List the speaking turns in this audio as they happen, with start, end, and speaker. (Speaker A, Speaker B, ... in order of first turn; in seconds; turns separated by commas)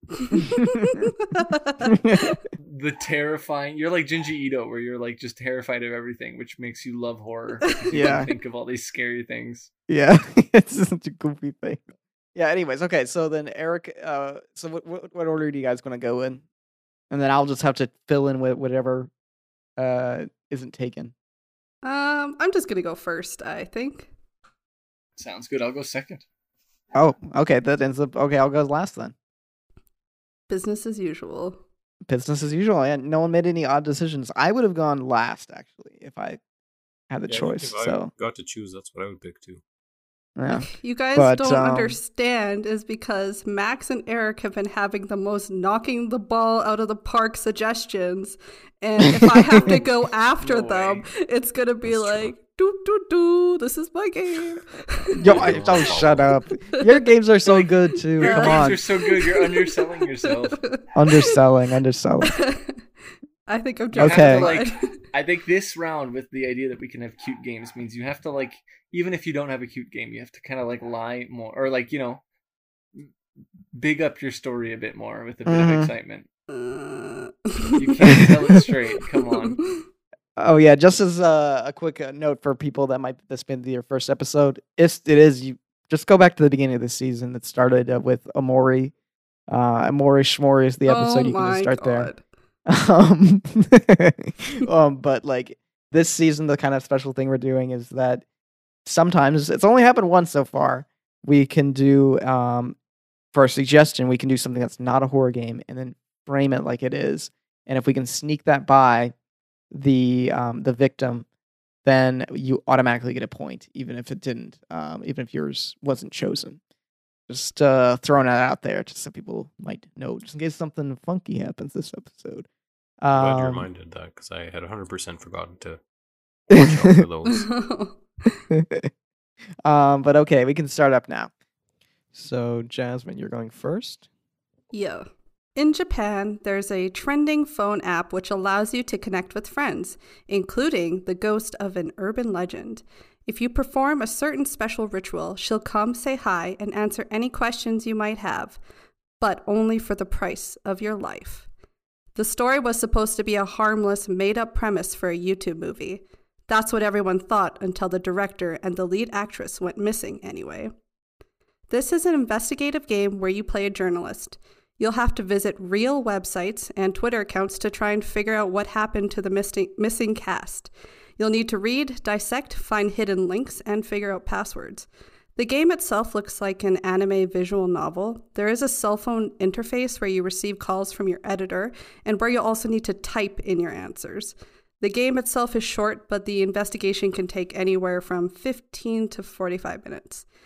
Speaker A: 0.2-1.9, Speaker B: 0.5-1.0, Speaker B: 1.8-2.4, Speaker C: 2.6-9.7, Speaker B: 7.9-8.3, Speaker B: 9.9-16.4, Speaker B: 17.1-19.1, Speaker B: 19.8-21.1, Speaker A: 21.8-24.1, Speaker C: 25.2-26.2, Speaker B: 26.9-29.1, Speaker A: 30.5-31.6, Speaker B: 32.0-36.4, Speaker B: 37.1-38.1, Speaker D: 37.3-39.6, Speaker B: 40.4-42.0, Speaker A: 40.5-55.8, Speaker B: 49.0-49.8, Speaker C: 49.5-51.1, Speaker D: 51.8-52.4, Speaker B: 55.1-58.8, Speaker D: 55.2-56.4, Speaker C: 57.4-60.6, Speaker A: 58.2-60.8, Speaker B: 61.0-62.4, Speaker A: 62.2-62.8, Speaker A: 63.5-64.9, Speaker B: 64.0-64.5, Speaker C: 64.0-72.2, Speaker C: 73.7-76.3, Speaker B: 75.5-75.9, Speaker A: 76.5-78.6, Speaker C: 77.7-79.6, Speaker B: 80.4-88.9, Speaker B: 89.5-92.1, Speaker A: 90.8-92.2, Speaker B: 92.7-98.2, Speaker B: 98.8-102.8, Speaker B: 103.3-109.1, Speaker B: 109.7-111.2, Speaker B: 111.8-116.6, Speaker B: 117.3-122.5, Speaker B: 123.0-123.7, Speaker D: 123.1-125.8, Speaker D: 126.5-127.6, Speaker A: 127.3-128.3, Speaker B: 128.5-128.9, Speaker B: 129.6-131.3, Speaker B: 132.1-134.1, Speaker A: 134.7-148.6, Speaker A: 149.2-151.4, Speaker A: 152.1-160.7, Speaker A: 161.7-190.2